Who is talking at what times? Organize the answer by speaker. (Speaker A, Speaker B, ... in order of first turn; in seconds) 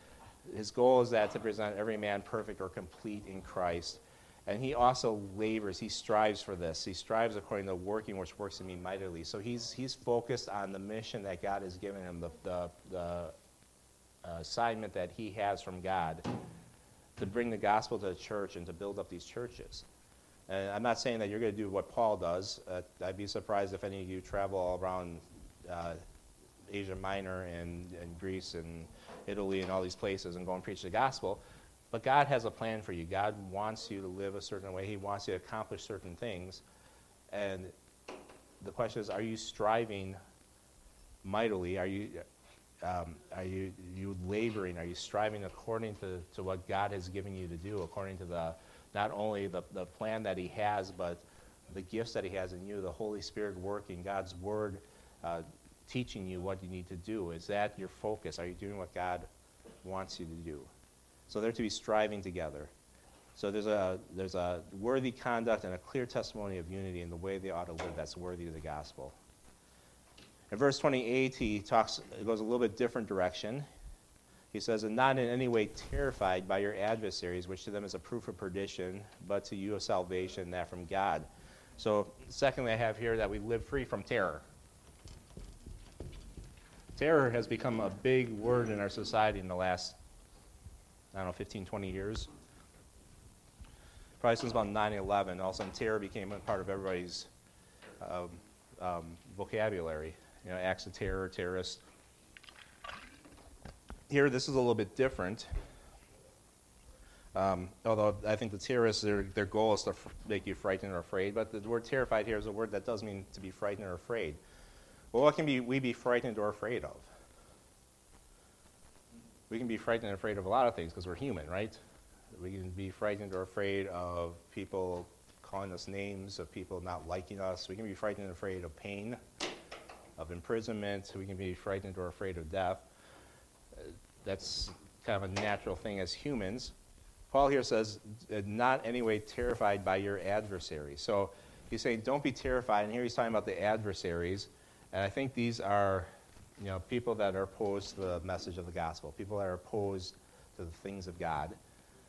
Speaker A: 0.5-13.3, 14.2-16.3, 17.2-19.8, 20.5-26.0, 26.7-36.6, 37.3-37.7, 38.6-40.2, 41.2-42.2, 42.8-59.3, 59.8-60.7, 61.3-62.7, 63.4-69.2, 70.5-73.7, 74.5-84.4, 87.0-90.0, 91.1-92.3, 94.2-97.3, 98.0-101.8, 104.1-105.5, 107.3-114.4, 115.1-117.1, 119.5-121.8, 122.3-129.2, 130.2-132.8, 133.7-136.7, 137.3-151.6